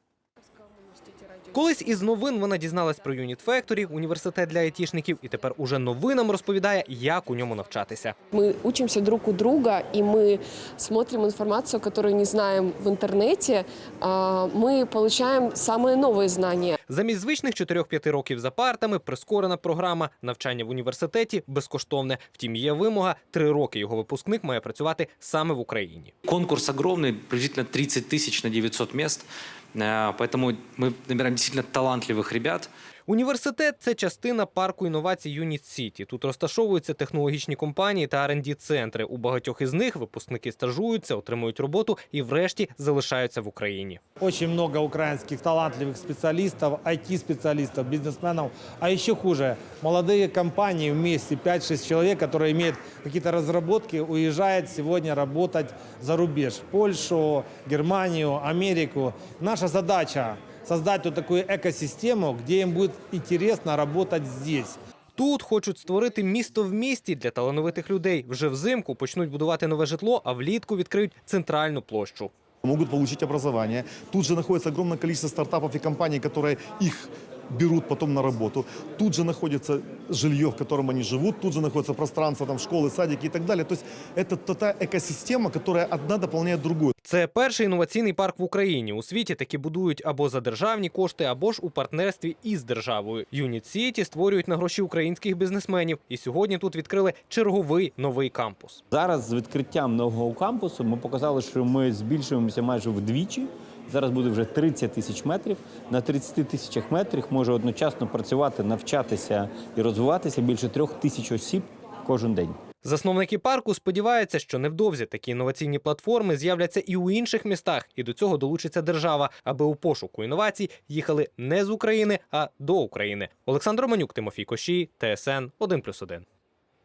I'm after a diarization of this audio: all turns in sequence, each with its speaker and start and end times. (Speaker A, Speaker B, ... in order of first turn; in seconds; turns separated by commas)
Speaker A: 1.5-8.1, Speaker B: 8.3-16.8, Speaker A: 16.9-26.1, Speaker C: 26.2-32.7, Speaker A: 33.1-44.0, Speaker D: 44.2-64.8, Speaker A: 65.2-72.3, Speaker E: 72.6-86.9, Speaker A: 87.0-98.8, Speaker F: 98.9-112.6, Speaker A: 112.8-126.2